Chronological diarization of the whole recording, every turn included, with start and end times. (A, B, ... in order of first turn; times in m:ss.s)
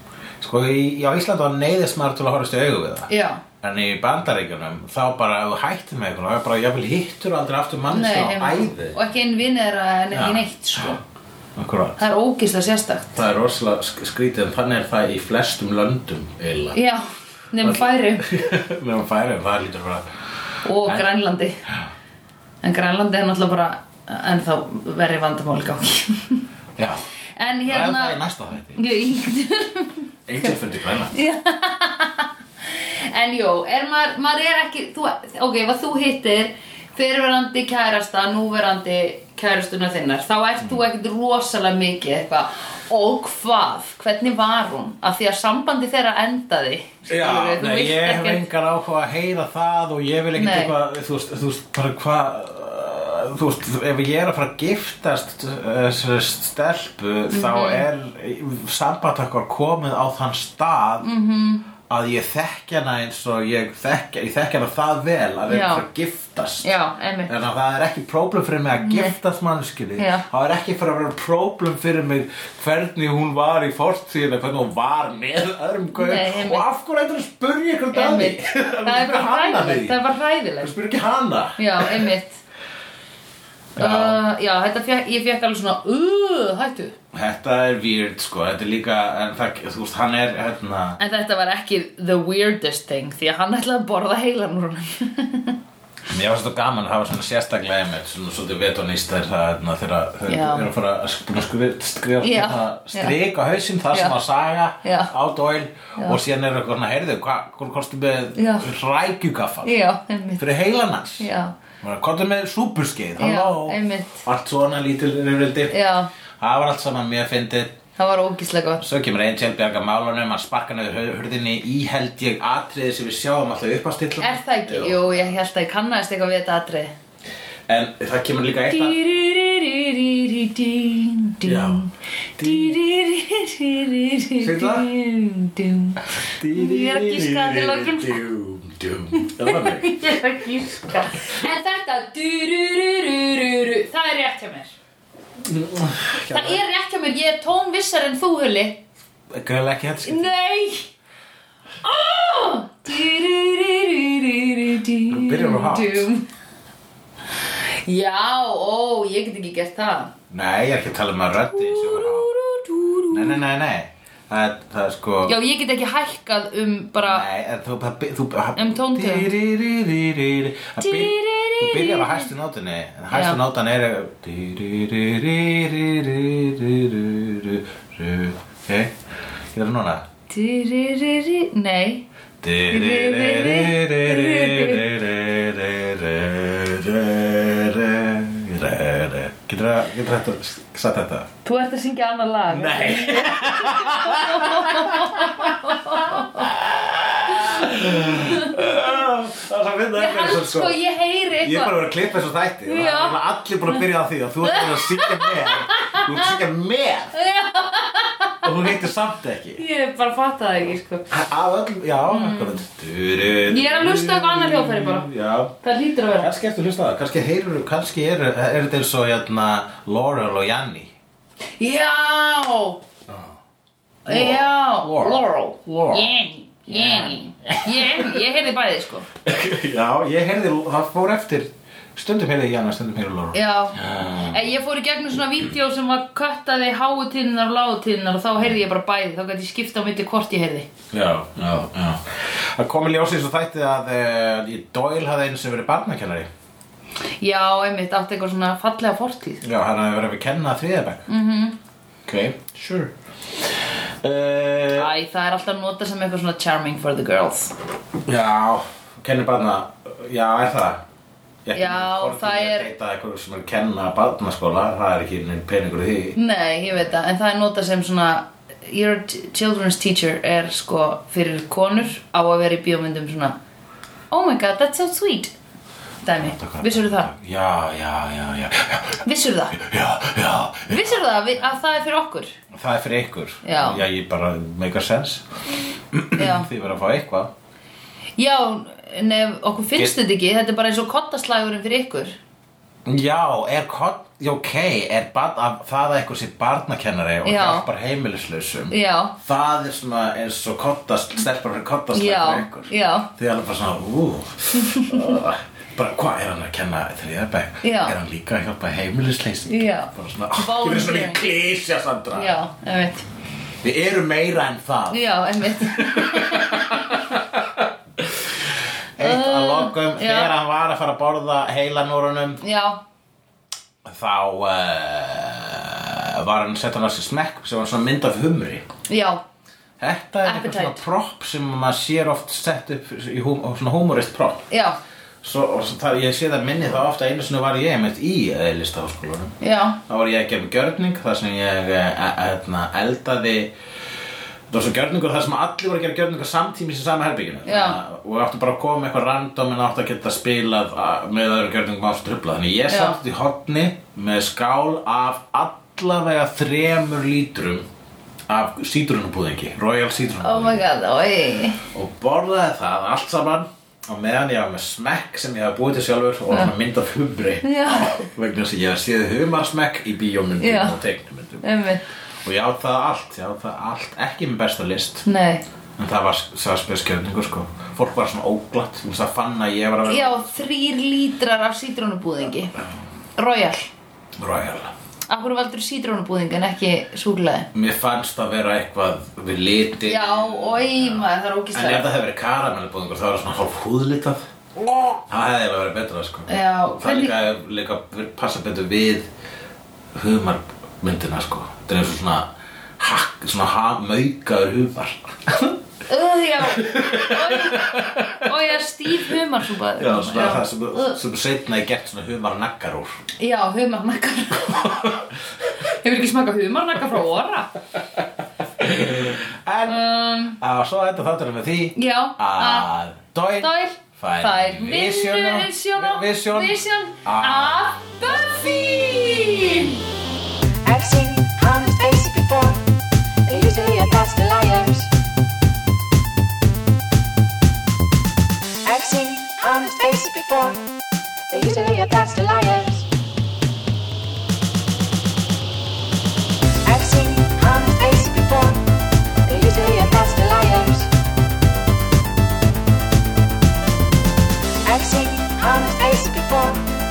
0:00.4-0:03.1 A
0:03.1-0:03.4 B
0:03.6-0:09.0 A
0:07.9-0:11.0 B
0:10.1-0:11.0 A
0:11.6-0:12.0 A
0:12.0-0:13.2 B
0:13.1-0:16.8 A
0:16.7-0:18.3 B
0:17.6-0:20.0 A
0:20.6-0:21.6 B
0:22.6-0:26.4 B
0:27.4-0:28.2 B
0:27.6-0:28.8 A
0:28.8-0:30.6 B
0:30.3-0:31.1 A
0:31.1-0:48.4 B
0:47.1-1:01.0 A
0:50.3-0:50.7 B
0:57.3-0:57.8 B
1:01.0-1:01.7 B
1:01.9-1:06.7 A
1:05.5-1:05.8 B
1:06.6-1:07.3 B
1:07.3-1:20.0 A
1:08.8-1:09.1 B
1:10.0-1:10.2 B
1:15.9-1:16.6 B
1:17.9-1:20.7 B
1:20.6-1:22.1 A
1:21.6-1:22.4 B
1:23.8-1:24.2 A
1:23.8-1:27.0 B
1:27.1-1:31.0 A
1:31.0-1:35.6 B
1:36.1-1:49.8 A
1:40.3-1:40.7 B
1:42.2-1:43.2 B
1:43.9-1:44.2 B
1:44.8-1:45.1 B
1:48.4-1:48.7 B
1:49.6-1:50.4 B
1:50.4-1:51.3 A
1:51.2-1:51.5 B
1:51.8-1:55.8 A
1:53.2-1:54.2 B
1:55.7-1:56.1 B
1:56.4-1:57.8 A
1:58.0-1:58.8 B
1:58.8-2:05.2 A
2:04.2-2:06.9 B
2:07.7-2:09.0 A
2:08.7-2:18.2 B
2:11.4-2:11.8 A
2:12.4-2:12.8 A
2:14.4-2:14.9 A
2:16.4-2:20.1 A
2:19.1-2:24.7 B
2:25.4-2:26.6 A
2:26.3-2:28.8 B
2:29.3-2:30.3 A
2:30.0-2:30.9 B
2:31.8-2:36.2 B
2:35.1-2:36.1 A
2:37.5-2:40.1 B
2:40.3-2:42.3 A
2:41.5-2:43.4 B
2:43.1-2:45.4 A
2:45.2-2:47.3 B
2:47.0-2:58.9 A
2:48.6-2:49.3 B
2:50.8-2:52.3 B
2:53.1-2:53.4 B
2:59.5-3:00.0 A
3:00.3-3:02.0 B
3:02.4-3:11.3 A
3:02.7-3:04.8 B
3:11.4-3:16.5 B
3:12.5-3:20.8 A
3:17.4-3:18.6 B
3:19.9-3:21.8 B
3:21.4-3:27.1 A
3:22.6-3:23.8 B
3:24.4-3:26.3 B
3:27.1-3:28.7 B
3:28.4-3:29.6 A
3:29.6-3:31.0 B
3:31.1-3:35.6 A
3:32.0-3:32.6 B
3:33.5-3:35.1 B
3:35.6-3:36.3 B
3:36.2-3:40.9 A
3:41.6-3:42.8 B
3:44.0-3:49.1 B
3:44.1-3:46.1 A
3:46.7-3:48.2 A
3:49.2-3:54.4 A
3:53.3-4:00.7 B
4:00.9-4:06.3 A
4:07.2-4:09.4 B
4:09.4-4:11.0 A
4:11.1-4:11.6 B
4:12.0-4:12.9 A
4:14.0-4:14.9 A
4:14.7-4:17.5 B
4:18.0-4:20.8 A
4:21.4-4:26.2 A
4:21.5-4:22.7 B
4:26.2-4:33.4 B
4:34.1-4:35.3 B
4:36.0-4:37.1 B
4:36.2-4:41.0 A
4:39.0-4:39.6 B
4:40.7-4:42.3 B
4:42.5-4:45.2 A
4:43.4-4:43.8 B
4:45.8-4:47.3 A
4:46.2-4:46.5 B
4:48.2-4:52.2 B
4:52.8-5:12.4 A
4:57.2-4:57.6 B
4:58.7-4:59.2 B
5:01.9-5:03.1 B
5:04.5-5:05.1 B
5:07.6-5:07.9 B
5:09.5-5:11.2 B
5:12.1-5:13.0 B
5:13.6-5:22.4 A
5:14.9-5:16.8 B
5:19.0-5:20.3 B
5:22.4-5:22.8 B
5:23.8-5:28.6 A
5:28.9-5:29.2 B
5:29.8-5:34.5 A
5:30.2-5:30.8 B
5:34.5-5:34.8 B
5:35.2-5:43.5 A
5:39.4-5:39.8 B
5:44.5-5:57.7 A
5:47.4-5:47.8 B
5:52.7-5:53.0 B
5:58.3-6:00.6 A
6:00.2-6:01.6 B
6:01.7-6:11.4 A
6:07.4-6:08.0 B
6:10.4-6:10.8 B
6:11.4-6:11.8 B
6:12.2-6:15.0 A
6:15.0-6:15.4 B
6:15.8-6:20.4 A
6:19.9-6:22.5 B
6:23.2-6:23.7 B
6:24.2-6:24.7 A
6:25.1-6:27.5 B
6:27.5-6:34.2 A
6:29.9-6:31.8 B
6:35.1-6:39.1 A
6:36.3-6:37.2 B
6:39.9-6:45.6 A
6:45.9-6:51.0 B
6:46.4-6:48.3 A
6:49.8-6:53.0 A
6:53.2-6:55.0 B
6:54.5-6:55.0 A
6:55.8-6:57.5 B
6:58.6-6:59.8 A
6:59.6-7:00.4 B
7:00.4-7:09.2 A
7:01.8-7:02.7 B
7:03.4-7:09.8 B
7:10.6-7:12.6 C
7:13.2-7:14.9 C
7:18.6-7:20.6 C
7:21.3-7:22.9 C
7:26.6-7:28.6 C
7:29.2-7:30.9 C
7:34.6-7:36.6 C